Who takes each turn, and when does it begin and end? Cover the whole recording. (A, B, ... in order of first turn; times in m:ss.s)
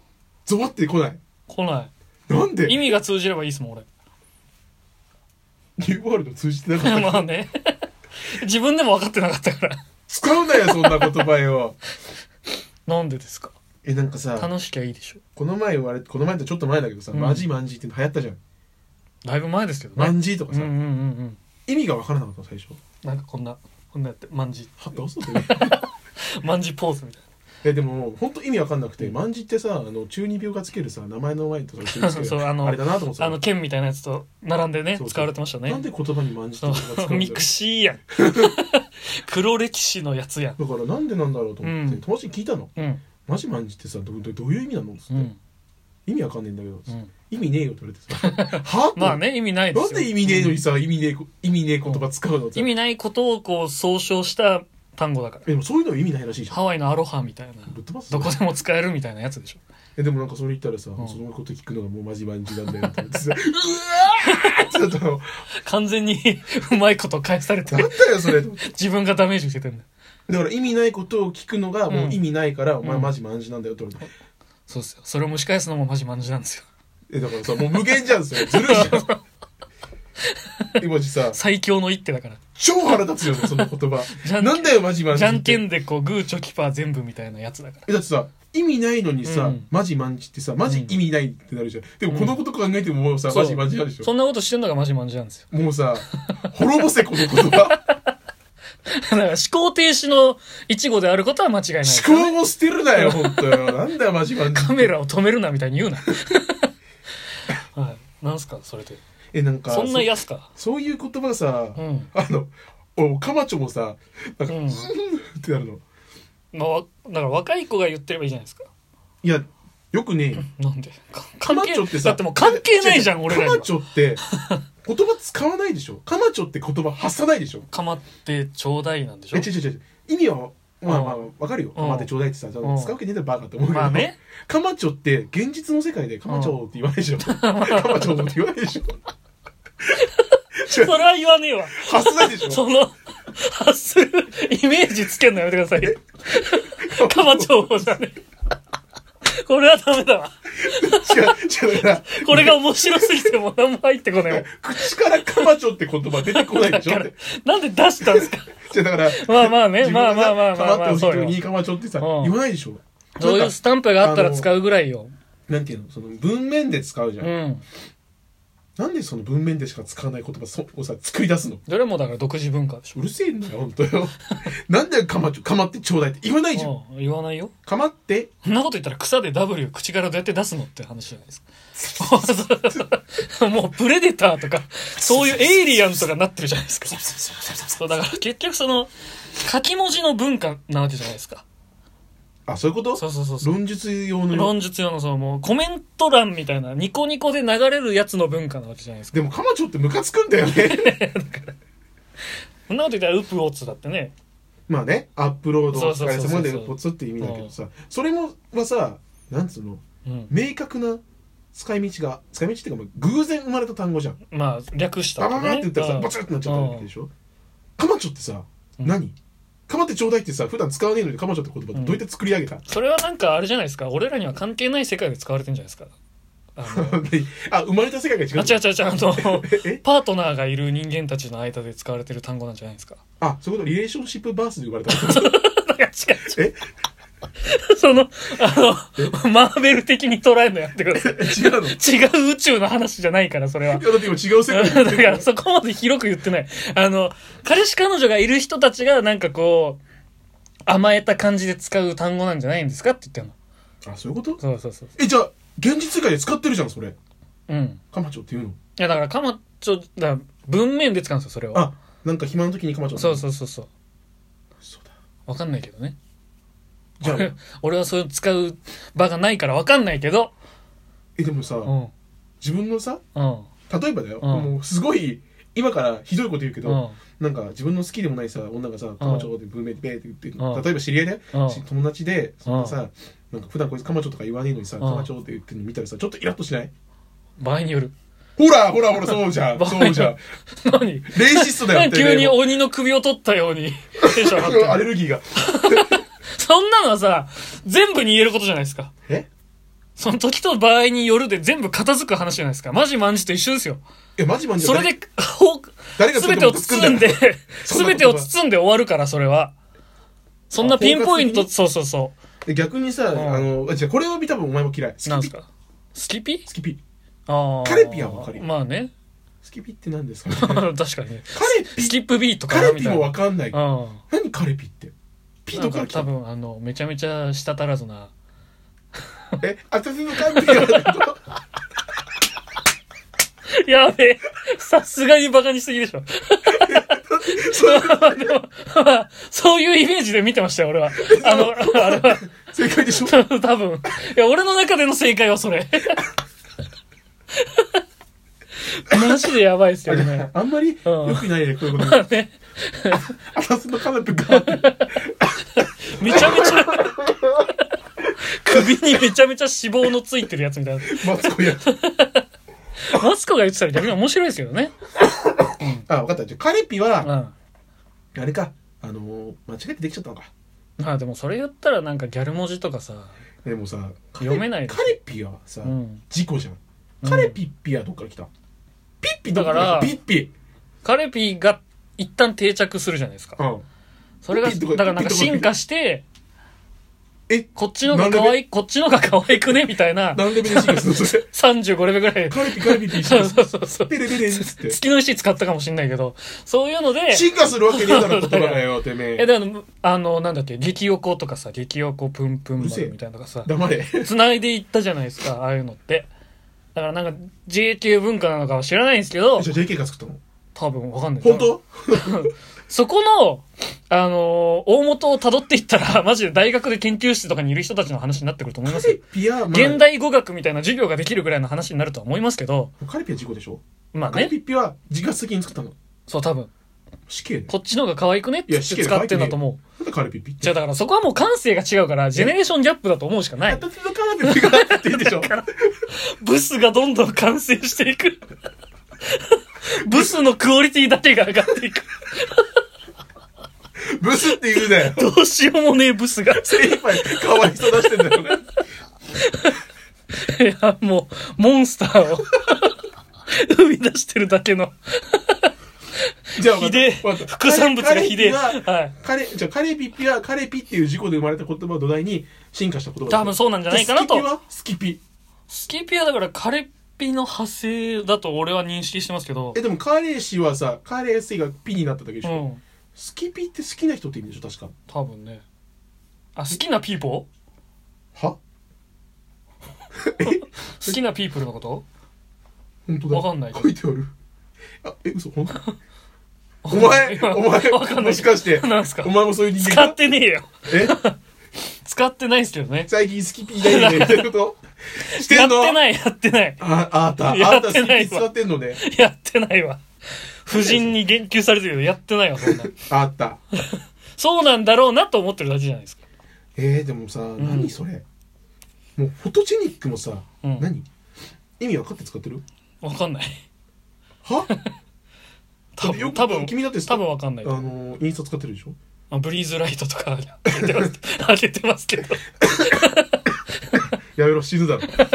0:00.4-0:01.2 A
0:01.5-0:01.9 B
0:02.3-0:02.9 A
0:02.6-0:03.8 B
0:05.8-0:07.3 A
0:06.8-0:07.8 B
0:08.3-0:09.8 B
0:10.1-0:11.8 A
0:10.6-0:11.2 B
0:12.8-0:13.5 B
0:13.8-0:14.5 A
0:14.4-0:15.2 B
0:15.4-0:18.4 A
0:17.1-0:17.5 B
0:19.2-0:21.4 B
0:20.0-0:20.7 A
0:21.7-0:22.8 A
0:23.0-0:24.7 B
0:24.8-0:25.8 A
0:25.3-0:27.2 B
0:27.6-0:33.4 A
0:31.8-0:35.8 B
0:35.0-0:37.5 A
0:36.6-0:40.6 B
0:38.2-0:38.5 A
0:40.6-0:42.7 A
0:41.6-0:42.0 B
0:42.8-0:43.0 B
0:43.2-0:45.3 A
0:45.1-0:45.4 B
0:46.0-0:52.7 A
0:48.2-0:50.6 B
0:51.8-0:55.5 B
0:55.4-0:56.6 A
0:56.5-0:59.6 B
0:57.7-0:58.3 A
1:00.0-1:05.4 A
1:04.2-1:04.7 B
1:05.6-1:09.8 B
1:07.6-1:08.7 A
1:10.3-1:14.1 A
1:11.9-1:12.2 B
1:12.8-1:13.1 B
1:14.7-1:16.6 B
1:17.1-1:19.1 A
1:18.4-1:19.2 B
1:20.8-1:21.4 A
1:21.3-1:22.4 B
1:22.6-1:25.6 A
1:23.4-1:27.8 B
1:27.8-1:34.1 A
1:29.2-1:29.7 B
1:30.7-1:30.9 B
1:32.1-1:32.4 B
1:33.3-1:35.4 B
1:35.5-1:37.8 A
1:37.4-1:38.0 B
1:38.9-1:42.4 B
1:41.8-1:44.9 A
1:43.0-1:43.7 B
1:44.5-1:46.7 B
1:47.7-1:49.0 B
1:49.3-1:55.8 A
1:49.7-1:50.5 B
1:51.8-1:52.1 B
1:54.5-1:54.9 B
1:56.5-1:58.7 B
1:59.2-2:00.4 A
2:00.4-2:03.7 B
2:01.4-2:04.2 A
2:04.3-2:04.6 B
2:04.8-2:07.7 A
2:07.7-2:09.5 B
2:09.3-2:19.0 A
2:10.9-2:11.2 B
2:11.7-2:12.1 B
2:12.6-2:12.9 B
2:13.7-2:14.2 B
2:16.3-2:16.6 B
2:17.2-2:18.3 B
2:20.0-2:28.2 B
2:20.6-2:21.0 A
2:21.7-2:22.6 A
2:26.8-2:27.8 A
2:29.3-2:31.4 B
2:30.6-2:33.3 A
2:31.9-2:35.5 B
2:34.2-2:37.1 A
2:36.1-2:38.5 B
2:38.0-2:44.5 A
2:39.1-2:41.4 B
2:42.0-2:42.4 B
2:43.2-2:45.1 B
2:45.5-2:47.3 A
2:47.2-2:47.6 B
2:48.8-2:51.6 A
2:51.7-2:53.0 B
2:52.9-2:56.7 A
2:56.5-2:57.5 B
2:57.6-2:58.3 A
2:58.4-3:11.4 B
3:05.0-3:06.0 A
3:06.9-3:08.0 A
3:12.5-3:14.5 A
3:13.0-3:13.5 B
3:14.3-3:19.2 B
3:19.1-3:21.0 A
3:20.5-3:21.5 B
3:22.7-3:24.1 B
3:24.7-3:31.0 A
3:25.7-3:27.5 B
3:30.0-3:30.3 B
3:31.5-3:34.2 A
3:34.3-3:36.9 B
3:35.2-3:37.1 A
3:37.8-3:39.1 A
3:39.7-3:42.6 A
3:41.7-3:42.0 B
3:42.7-3:45.9 B
3:46.6-3:47.0 B
3:46.6-3:49.8 A
3:48.3-3:53.0 B
3:53.2-3:55.3 A
3:54.9-3:56.4 B
3:56.3-3:56.6 A
3:57.4-4:09.8 B
4:00.9-4:01.8 A
4:03.7-4:05.3 A
4:10.6-4:13.3 B
4:13.8-4:14.4 A
4:14.4-4:14.9 B
4:15.0-4:17.0 A
4:17.5-4:17.8 B
4:17.9-4:18.6 A
4:18.8-4:21.7 B
4:21.5-4:23.2 A
4:23.0-4:23.7 B
4:24.6-4:24.9 A
4:25.3-4:26.0 B
4:27.0-4:27.3 A
4:27.0-4:30.3 B
4:31.2-4:31.7 A
4:31.6-4:31.9 B
4:32.4-4:33.0 A
4:33.1-4:33.5 B
4:33.7-4:46.7 A
4:34.2-4:34.5 B
4:36.6-4:37.0 B
4:39.0-4:39.3 B
4:40.4-4:40.7 B
4:41.3-4:41.6 B
4:42.4-4:42.8 B
4:44.8-4:45.1 B
4:47.4-4:47.9 B
4:48.4-4:50.2 A
4:49.0-4:58.9 B
4:51.1-4:52.4 A
4:54.0-4:56.0 A
5:00.0-5:03.8 B
5:04.2-5:05.0 A
5:04.6-5:09.5 B
5:06.0-5:08.3 A
5:10.5-5:12.1 B
5:10.6-5:11.5 A
5:12.4-5:15.3 A
5:13.1-5:13.5 B
5:15.0-5:16.5 B
5:16.5-5:16.8 A
5:17.3-5:18.9 B
5:17.6-5:18.5 A
5:19.4-5:20.7 A
5:20.3-5:24.0 B
5:21.3-5:23.6 A
5:24.1-5:24.9 A
5:25.4-5:26.1 A
5:25.5-5:28.1 B
5:29.4-5:31.2 A
5:30.2-5:31.0 B
5:33.6-5:42.3 B
5:36.5-5:38.3 A
5:40.9-5:43.2 A
5:42.9-5:46.0 B
5:47.4-5:47.8 B
5:48.7-5:50.3 B
5:49.8-5:52.1 A
5:50.8-5:53.1 B
5:53.1-5:57.2 A
5:54.3-5:55.0 B
5:55.6-5:57.4 B
5:58.2-6:02.2 B
5:58.5-5:59.0 A
6:00.8-6:01.7 A
6:02.8-6:04.7 B
6:05.5-6:07.1 A
6:05.6-6:05.8 B
6:07.0-6:07.3 B
6:08.1-6:10.3 A
6:10.8-6:13.1 B
6:13.4-6:18.3 A
6:14.2-6:15.0 B
6:15.6-6:16.0 B
6:17.0-6:17.4 B
6:19.0-6:20.3 A
6:19.3-6:20.0 B
6:20.8-6:23.4 B
6:23.4-6:23.6 A
6:24.2-6:26.0 B
6:24.3-6:25.5 A
6:27.3-6:28.4 A
6:27.5-6:46.1 B
6:30.1-6:31.2 A
6:32.3-6:34.8 A
6:37.1-6:39.3 A
6:42.6-6:44.1 A
6:46.7-6:49.5 B
6:49.4-6:50.2 A
6:50.5-6:59.0 B
6:51.2-6:52.3 A
6:58.6-6:59.8 A
6:59.5-7:02.7 B
7:02.8-7:05.7 A
7:03.9-7:04.3 B
7:06.1-7:06.5 B
7:07.1-7:07.5 A
7:07.5-7:09.6 B
7:08.5-7:10.6 A
7:10.4-7:13.6 B
7:13.4-7:15.7 A
7:14.2-7:18.2 B
7:19.1-7:22.4 B
7:19.8-7:20.2 A
7:23.9-7:25.1 A
7:24.6-7:28.0 B
7:26.3-7:28.4 A
7:29.2-7:29.6 B
7:30.1-7:32.7 B
7:33.3-7:35.5 B
7:36.3-7:38.9 B
7:36.4-7:45.0 A
7:43.1-7:44.3 B
7:45.5-7:49.6 B
7:49.5-7:52.4 A
7:52.2-7:52.6 B
7:52.9-7:54.7 A
7:54.9-7:55.4 B
7:56.3-7:57.3 B
8:00.0-8:01.0 A
8:00.2-8:01.8 B
8:02.8-8:04.1 A
8:03.1-8:03.7 B
8:04.8-8:05.6 A
8:06.6-8:11.2 B
8:06.7-8:10.0 A
8:10.7-8:11.0 A
8:11.8-8:12.9 B
8:12.9-8:15.8 A
8:13.6-8:14.3 B
8:15.0-8:16.6 B
8:16.6-8:18.8 A
8:17.2-8:19.8 B
8:20.4-8:22.8 B
8:20.5-8:20.9 A
8:22.4-8:23.4 A
8:23.6-8:26.0 B
8:26.6-8:28.0 A
8:27.4-8:27.8 B
8:29.0-8:30.9 A
8:30.4-8:30.7 B
8:31.6-8:32.4 A
8:32.8-8:33.4 B
8:34.2-8:34.5 A
8:35.7-8:37.7 B
8:35.8-8:38.8 A
8:39.1-8:43.8 B
8:40.5-8:40.8 A
8:42.4-8:42.8 A
8:44.2-8:44.9 A